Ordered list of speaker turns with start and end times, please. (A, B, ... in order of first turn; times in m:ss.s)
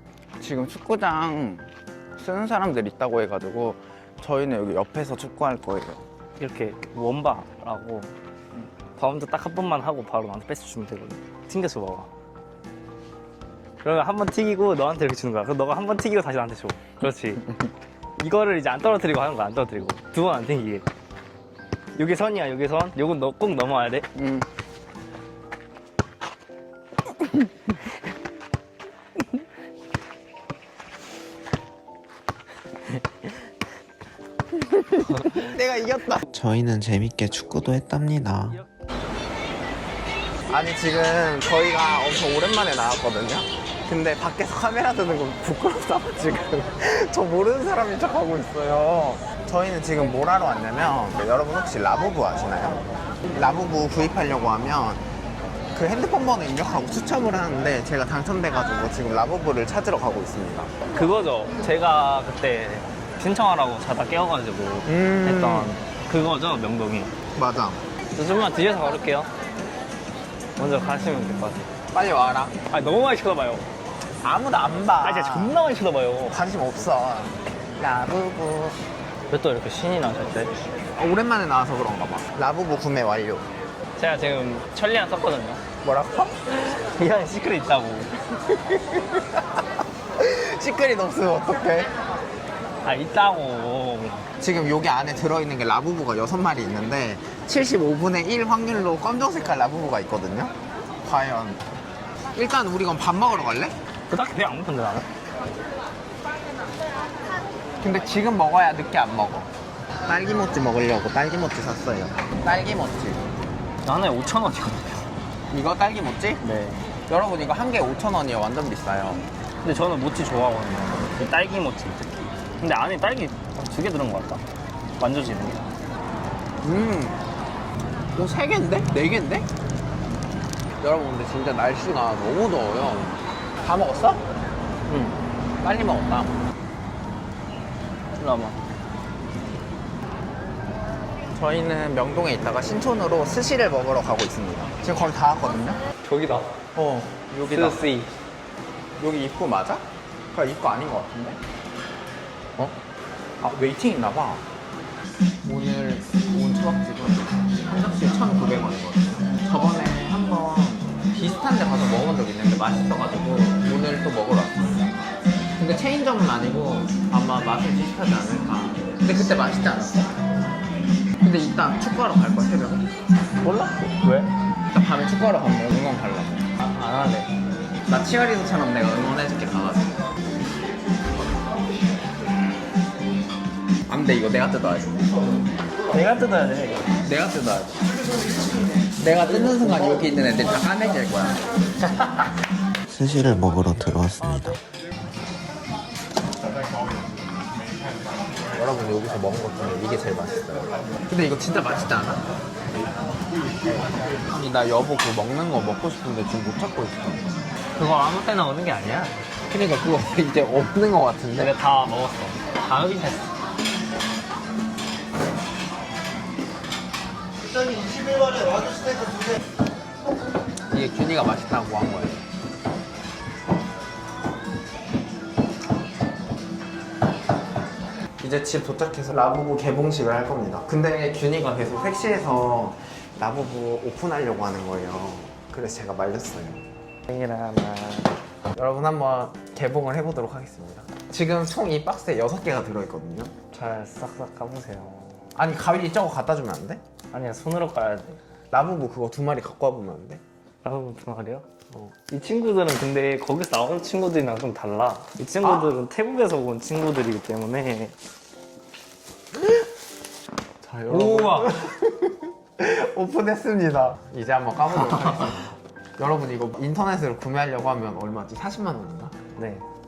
0:00.4-0:06.0 A
0:06.4-0:08.1 B
0:09.0-0:12.1 B
0:13.8-0:17.5 B
0:18.2-0:20.9 B
0:22.0-0:24.1 B
0:24.2-0:24.5 A
0:34.6-0:38.5 A
0:36.3-0:38.5 C
0:40.5-0:55.0 A
0:55.8-1:00.7 A
1:00.9-1:07.1 B
1:04.9-1:05.8 A
1:07.4-1:07.8 A
1:08.2-1:09.3 B
1:10.6-1:11.7 B
1:11.9-1:12.6 A
1:12.7-1:13.7 B
1:14.2-1:15.6 A
1:15.0-1:16.4 B
1:16.3-1:18.8 A
1:19.3-1:20.5 B
1:21.0-1:23.5 A
1:24.0-1:25.6 B
1:25.8-1:26.3 A
1:26.5-1:28.1 B
1:28.7-1:29.2 A
1:30.2-1:32.0 A
1:32.8-1:34.3 B
1:34.4-1:41.6 A
1:42.3-1:43.8 A
1:44.1-1:45.1 B
1:47.8-1:49.5 A
1:50.1-1:53.3 A
1:53.8-1:55.1 B
1:55.5-1:56.4 A
1:56.4-1:56.9 B
1:57.1-1:59.3 A
1:59.6-2:04.4 B
2:05.0-2:05.6 B
2:06.6-2:07.2 A
2:08.2-2:09.5 A
2:10.8-2:14.2 A
2:14.9-2:15.2 B
2:15.6-2:16.4 A
2:18.2-2:18.6 B
2:21.3-2:25.8 A
2:26.0-2:26.5 B
2:26.8-2:27.8 A
2:27.4-2:28.1 B
2:29.0-2:31.4 A
2:33.4-2:34.4 A
2:35.4-2:44.9 A
2:45.6-2:50.1 A
2:51.2-2:52.9 A
2:53.4-2:54.3 B
2:54.7-2:56.5 A
2:56.6-2:57.3 B
2:57.9-3:00.0 A
3:03.9-3:05.1 A
3:05.9-3:06.9 B
3:07.0-3:07.8 A
3:09.0-3:11.4 A
3:11.9-3:12.2 B
3:12.9-3:14.6 C
3:13.1-3:14.0 A
3:18.5-3:22.2 A
3:24.3-3:27.5 A
3:27.8-3:29.2 B
3:29.5-3:31.5 A
3:31.4-3:33.3 B
3:40.7-3:42.3 A
3:48.2-3:56.6 A
3:57.1-3:58.2 B
3:58.5-4:03.3 A
4:03.5-4:05.3 B
4:05.4-4:06.8 A
4:07.1-4:08.2 B
4:08.5-4:10.2 A
4:10.6-4:18.0 B
4:15.4-4:15.7 A
4:20.6-4:29.2 A
4:20.8-4:21.6 B
4:29.4-4:29.6 B